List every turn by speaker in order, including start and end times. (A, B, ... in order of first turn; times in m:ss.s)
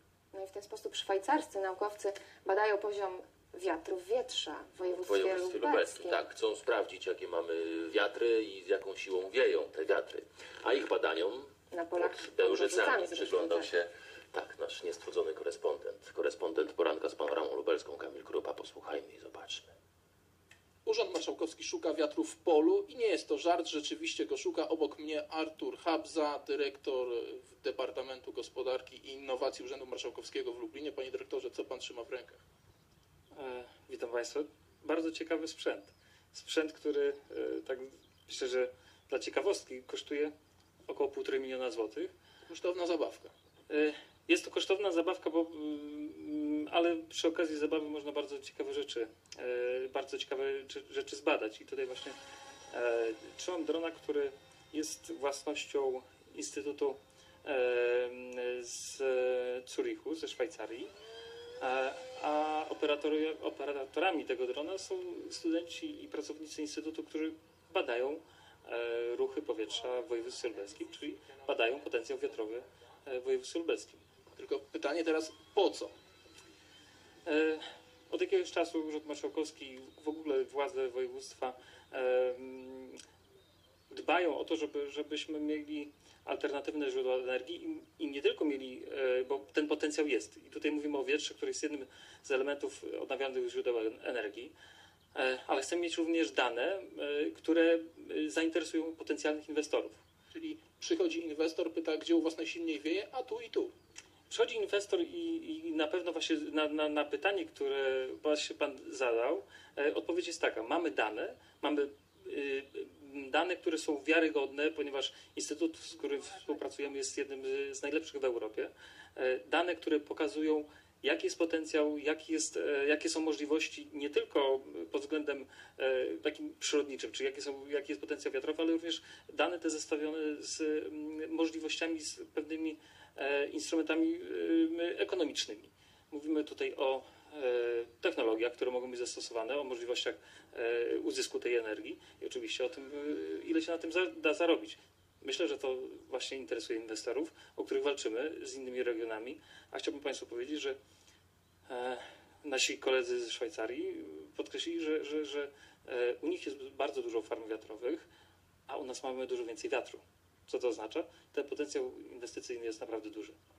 0:00.3-0:06.2 A
0:04.9-0:19.7 B
0:11.7-0:13.7 A
0:20.8-0:32.4 C
0:33.3-0:40.3 D
0:40.9-0:42.1 D
0:42.4-0:43.3 C
0:43.7-0:52.2 D
0:52.7-1:00.9 D
1:01.6-1:14.0 D
1:14.3-1:15.9 C
1:17.2-1:23.0 D
1:23.9-1:34.5 D
1:35.1-1:40.0 D
1:40.3-1:43.7 C
1:44.3-2:30.8 D
2:31.7-2:38.1 D
2:38.7-2:43.4 D